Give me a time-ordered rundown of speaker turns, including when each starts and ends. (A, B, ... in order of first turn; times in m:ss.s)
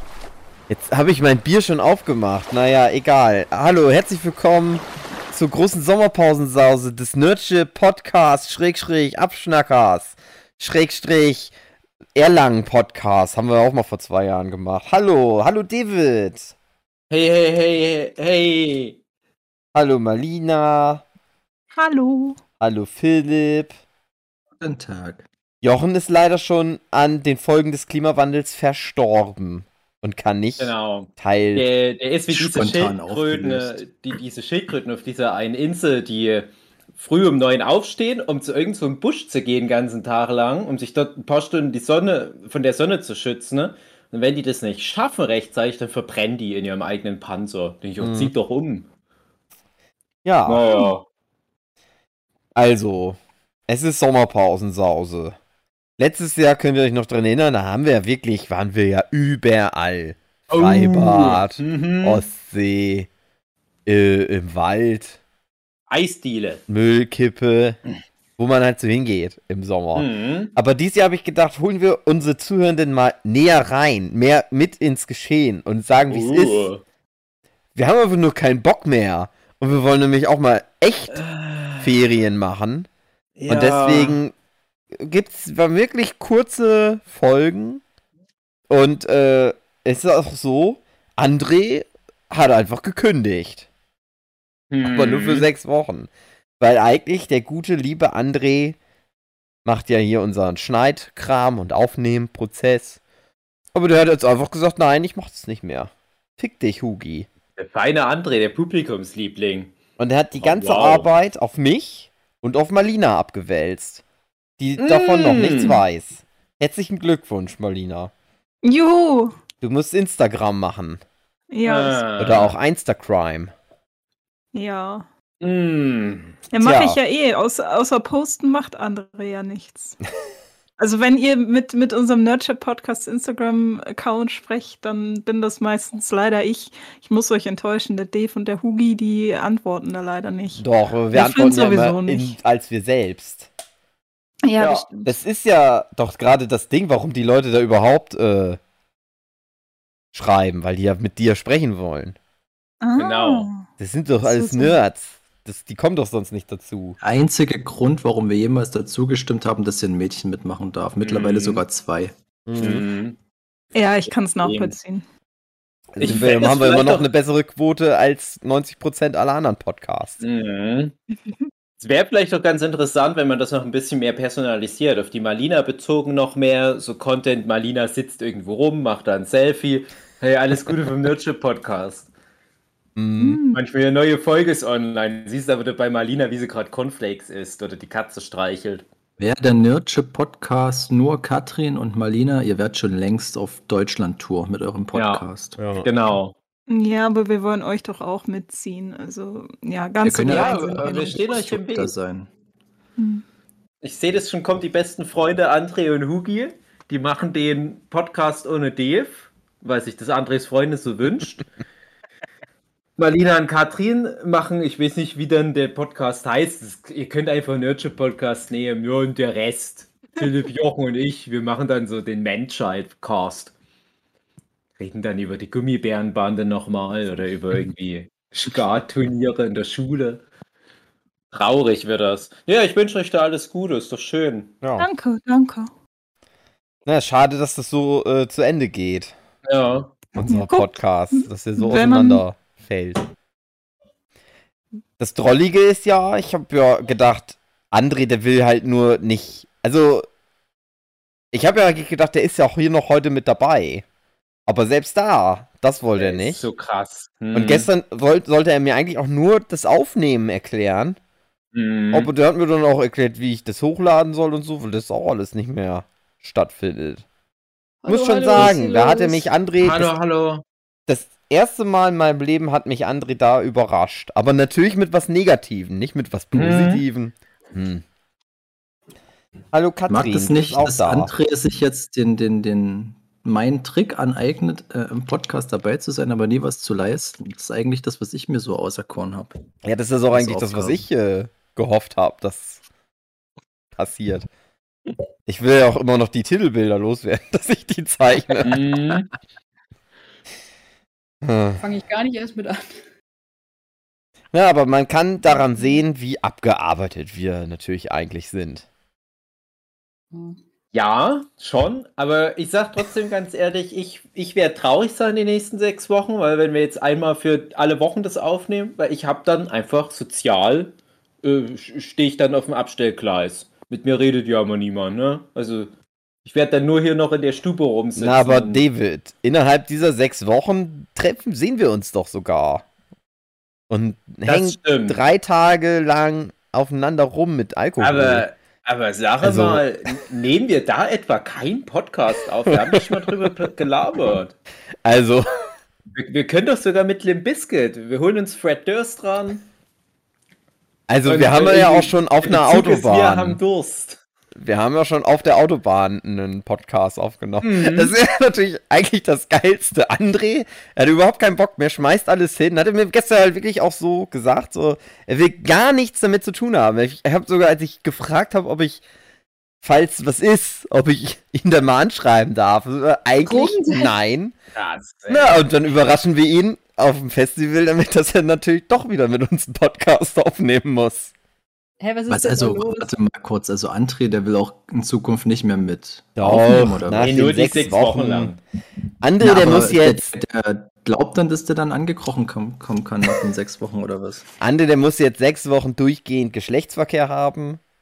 0:00.7-0:11.5 A
0:12.2-0:16.5 A
0:17.1-0:19.0 B
0:19.7-0:21.0 A
0:21.7-0:22.4 C
0:22.6-0:23.8 A
0:24.6-0:25.2 D
0:25.6-0:31.7 A
0:30.6-0:48.9 B
0:32.3-0:33.8 D
0:48.0-0:48.3 A
0:50.2-0:50.6 A
0:50.5-0:51.0 B
0:52.6-0:55.4 A
0:56.0-1:03.1 A
1:00.5-1:02.2 B
1:03.9-1:05.2 A
1:05.9-1:06.6 B
1:06.7-1:07.8 A
1:08.4-1:16.7 A
1:10.0-1:10.5 B
1:16.1-1:16.8 B
1:17.8-1:21.2 A
1:21.1-1:22.0 B
1:21.8-1:22.9 A
1:23.4-1:24.2 B
1:23.5-1:24.3 A
1:25.0-1:27.8 A
1:28.7-1:33.7 A
1:34.7-1:35.5 B
1:34.8-1:36.1 A
1:36.6-1:38.8 A
1:39.6-1:43.0 A
1:43.7-1:47.3 A
1:47.6-1:49.8 B
1:50.0-1:54.0 A
1:50.4-1:51.1 B
1:54.6-1:58.1 A
1:54.8-1:55.8 B
1:58.6-1:59.4 C
1:59.6-2:01.0 A
2:01.5-2:02.2 C
2:01.6-2:02.6 B
2:02.2-2:03.5 A
2:04.5-2:05.1 C
2:05.4-2:06.4 B
2:06.5-2:10.0 C
2:06.6-2:07.0 A
2:10.8-2:22.4 C
2:20.6-2:23.5 A
2:24.4-2:25.1 C
2:24.6-2:28.6 A
2:30.1-2:32.2 A
2:32.8-2:33.7 C
2:33.0-2:33.5 B
2:33.8-2:37.0 A
2:34.2-2:34.8 C
2:37.0-2:42.1 D
2:41.0-2:41.6 B
2:42.5-2:42.8 A
2:42.6-2:43.2 B
2:43.7-2:45.0 C
2:44.4-2:44.8 B
2:45.9-2:50.2 A
2:46.0-2:47.1 B
2:50.2-2:51.0 B
2:51.8-3:02.1 B
3:03.0-3:03.4 A
3:03.2-3:03.6 C
3:03.5-3:08.8 B
3:09.2-3:15.6 D
3:14.9-3:15.2 B
3:15.6-3:15.9 A
3:15.8-3:16.4 B
3:16.7-3:21.3 C
3:20.0-3:22.3 D
3:20.3-3:21.9 B
3:23.0-3:23.2 C
3:23.8-3:31.4 B
3:33.0-3:43.5 B
3:44.8-3:50.2 B
3:51.3-3:54.6 B
3:54.6-3:54.9 A
3:54.8-3:55.7 C
3:56.9-3:59.1 A
3:59.4-4:00.1 B
4:00.2-4:03.0 A
4:00.2-4:02.2 C
4:05.0-4:10.1 A
4:11.3-4:13.8 A
4:14.5-4:16.5 A
4:16.0-4:17.7 B
4:17.3-4:21.0 A
4:21.5-4:22.1 B
4:21.9-4:27.0 A
4:27.8-4:29.3 E
4:27.9-4:29.9 A
4:29.6-4:30.4 B
4:30.9-4:37.8 A
4:36.3-4:36.8 B
4:39.5-4:41.1 A
4:39.9-4:49.4 D
4:49.6-4:52.6 A
4:50.1-4:50.9 D
4:53.8-4:54.3 A
4:55.3-4:58.6 A
4:58.4-4:59.1 B
5:01.2-5:01.6 A
5:01.6-5:02.8 E
5:04.3-5:08.7 A
5:10.1-5:10.4 E
5:10.7-5:25.7 B
5:26.2-5:28.6 B
5:28.0-5:32.6 A
5:33.7-5:38.2 A
5:34.3-5:35.0 B
5:37.8-5:44.4 B
5:39.2-5:39.6 A
5:42.5-5:42.8 A
5:44.8-5:45.4 A
5:46.0-5:49.4 B
5:50.9-5:53.4 A
5:51.1-5:54.0 B
5:54.4-6:08.8 A
5:57.4-5:57.9 B
6:09.6-6:14.4 A
6:13.2-6:14.0 E
6:14.6-6:15.4 B
6:15.1-6:21.1 A
6:21.8-6:23.0 E
6:22.1-6:27.2 D
6:26.2-6:28.3 A
6:27.0-6:28.4 B
6:29.0-6:30.1 A
6:29.2-6:34.2 D
6:34.4-6:37.6 A